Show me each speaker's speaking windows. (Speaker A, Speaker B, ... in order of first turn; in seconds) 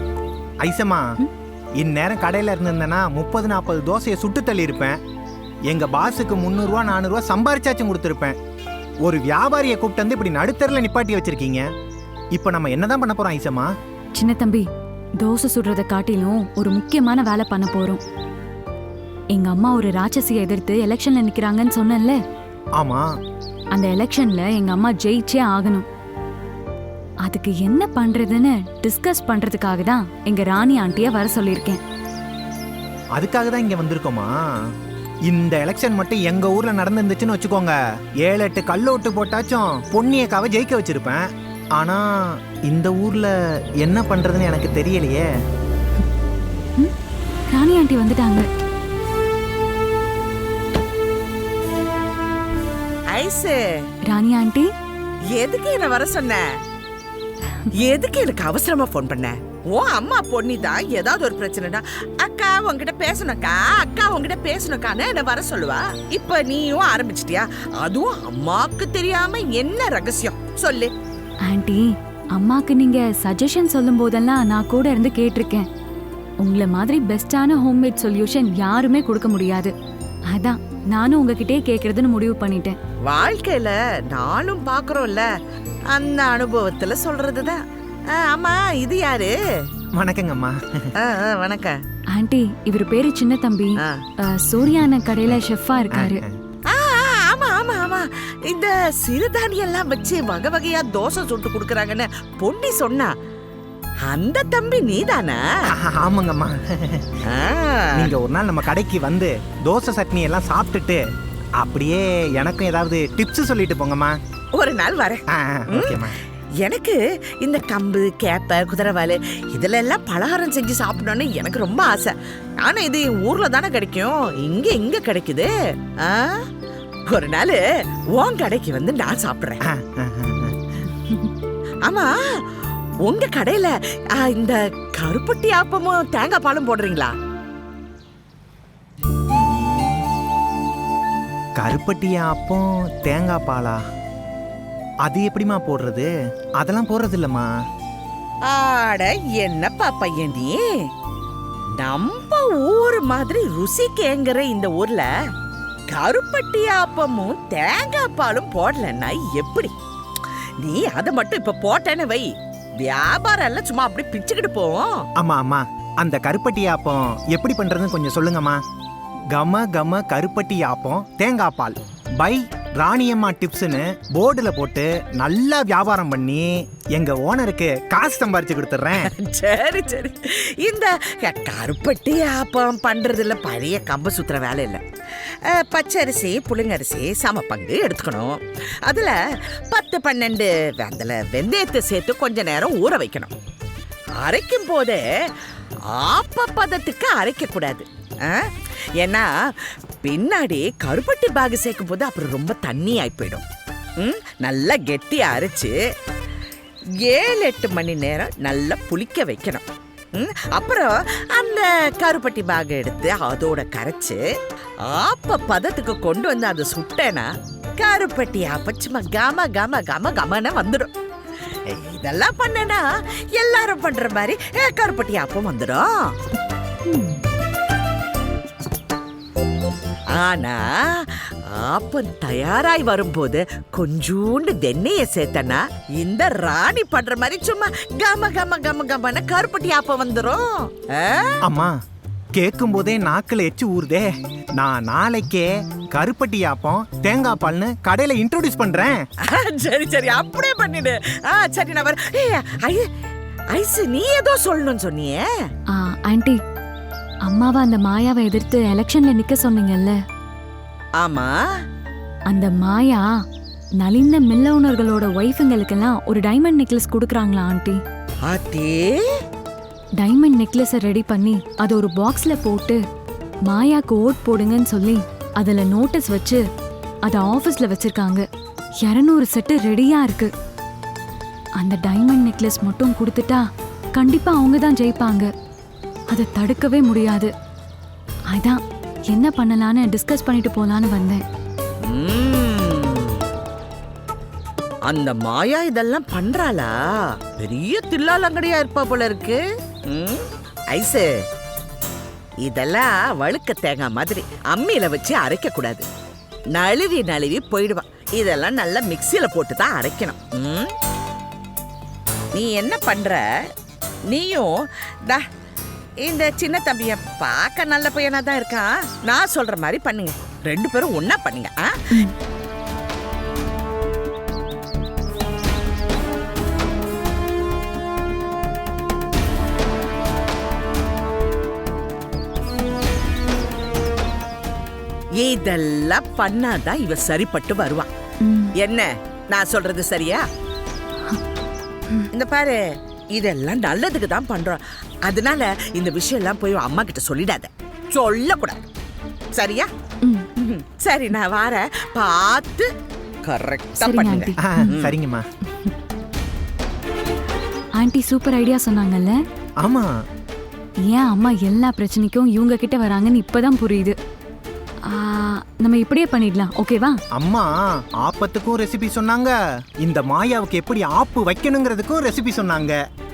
Speaker A: 0.6-1.1, 1.8-5.0, 5.7-8.4, 9.0-11.7, 12.3-13.7, 22.8-23.1, 33.2-34.3, 35.3-45.2, 90.0-90.9, 95.9-96.4, 105.7-107.2, 107.9-111.0, 111.6-114.2, 115.3-116.2, 129.7-131.2, 139.3-140.0, 141.6-143.8, 145.0-147.5, 165.2-168.6, 169.3-179.1, 241.4-241.8, 242.3-249.0, 354.4-355.2, 359.6-359.9, 367.1-372.8
Speaker B: 14.2-14.7, 15.2-18.0, 19.3-22.2, 23.7-25.9, 27.2-31.8, 47.5-48.5, 54.1-54.7, 71.5-75.7, 76.4-79.7, 80.3-82.8, 92.1-96.2, 255.7-256.4, 257.3-260.0, 262.3-263.1, 263.8-267.8, 270.0-272.8, 273.5-276.4, 277.1-278.2, 278.8-280.3, 281.6-283.4, 284.0-285.3, 286.1-287.3, 288.3-291.2, 338.2-338.5, 353.8-354.7, 357.8-359.2, 360.9-364.0, 364.9-367.0
Speaker C: 53.1-53.6, 55.3-56.4, 57.7-70.9, 83.0-85.2, 85.9-89.3, 91.0-91.8, 96.7-103.1, 104.0-105.4, 107.3-108.1, 114.5-116.1, 116.6-125.5, 126.0-126.5, 127.1-127.6, 128.1-129.6, 131.8-132.1, 133.1-137.1, 148.4-150.8, 151.8-155.1, 155.9-159.7, 160.6-165.0, 179.0-189.2, 189.7-193.3, 194.2-195.0, 195.9-203.4, 204.0-205.7, 207.0-214.2, 214.8-217.3, 217.8-220.9, 221.7-222.8, 223.3-226.1, 230.1-241.3, 249.2-252.9, 253.5-255.2, 261.0-261.4, 268.2-269.1, 291.8-293.2, 294.9-296.7, 297.3-301.1, 302.4-305.9, 306.5-310.7, 312.3-313.2, 314.1-315.2, 316.0-321.8, 335.2-337.9, 338.6-340.2, 342.1-342.6, 343.1-348.6, 349.4-349.7, 350.4-352.7, 353.2-354.9